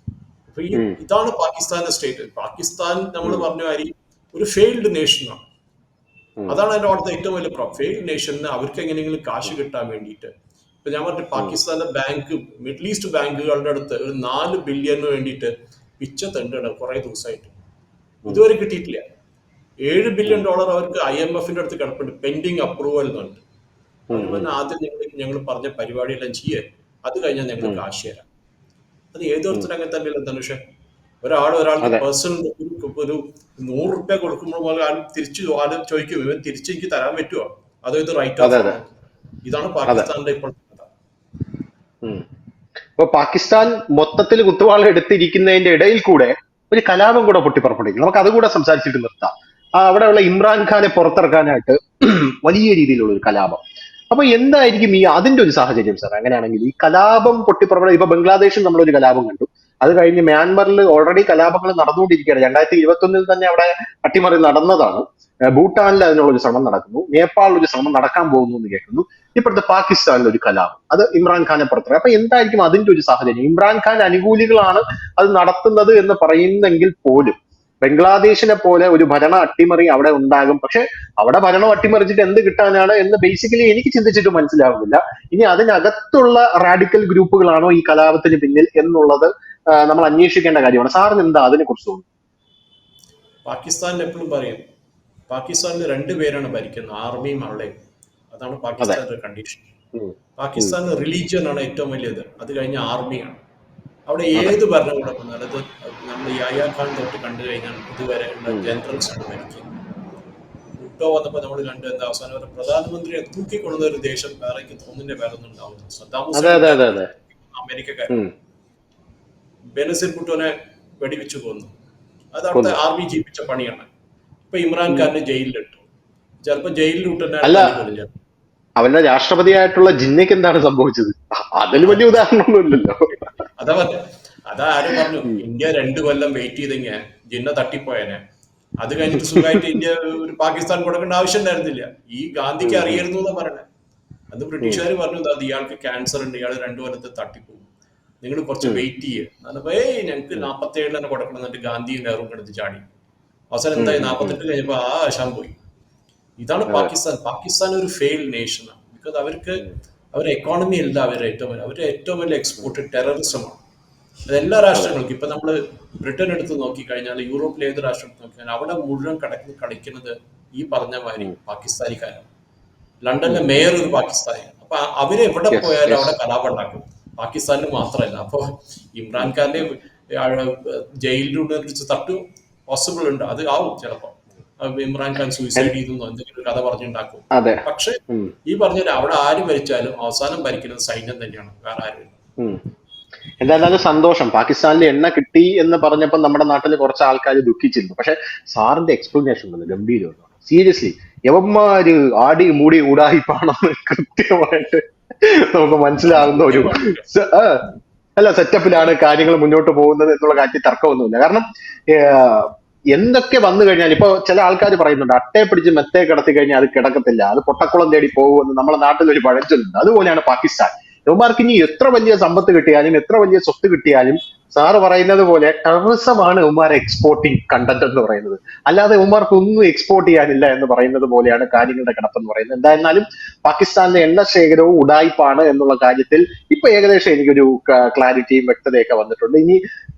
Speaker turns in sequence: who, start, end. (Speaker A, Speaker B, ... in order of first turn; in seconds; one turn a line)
Speaker A: 0.5-5.4
Speaker A: 6.5-10.3
Speaker A: 10.8-17.6
Speaker A: 18.3-19.0
Speaker A: 19.9-23.4
Speaker B: 24.1-24.5
Speaker A: 24.1-28.2
Speaker A: 29.1-30.6
Speaker A: 31.2-40.9
Speaker B: 38.4-38.8
Speaker B: 43.0-92.0
Speaker A: 93.5-94.6
Speaker A: 95.3-97.8
Speaker A: 98.3-99.7
Speaker B: 100.0-100.8
Speaker A: 100.4-103.4
Speaker A: 104.1-109.7
Speaker B: 108.5-108.8
Speaker A: 110.8-118.2
Speaker B: 116.3-117.1
Speaker A: 119.7-121.7
Speaker A: 122.3-123.9
Speaker B: 122.5-122.8
Speaker A: 124.5-125.9
Speaker B: 124.9-125.1
Speaker A: 126.4-128.1
Speaker B: 127.4-127.8
Speaker B: 128.8-133.3
Speaker A: 133.6-138.2
Speaker B: 134.8-135.4
Speaker A: 138.8-143.6
Speaker B: 139.1-139.7
Speaker B: 142.6-143.1
Speaker A: 144.3-147.6
Speaker A: 148.2-152.8
Speaker A: 153.5-155.6
Speaker B: 153.8-154.4
Speaker A: 156.4-163.6
Speaker A: 164.3-172.3
Speaker A: 173.0-192.2
Speaker B: 173.2-173.7
Speaker B: 175.5-176.1
Speaker B: 179.2-179.6
Speaker B: 187.3-188.3
Speaker B: 193.4-207.6
Speaker A: 206.1-207.1
Speaker B: 208.2-239.6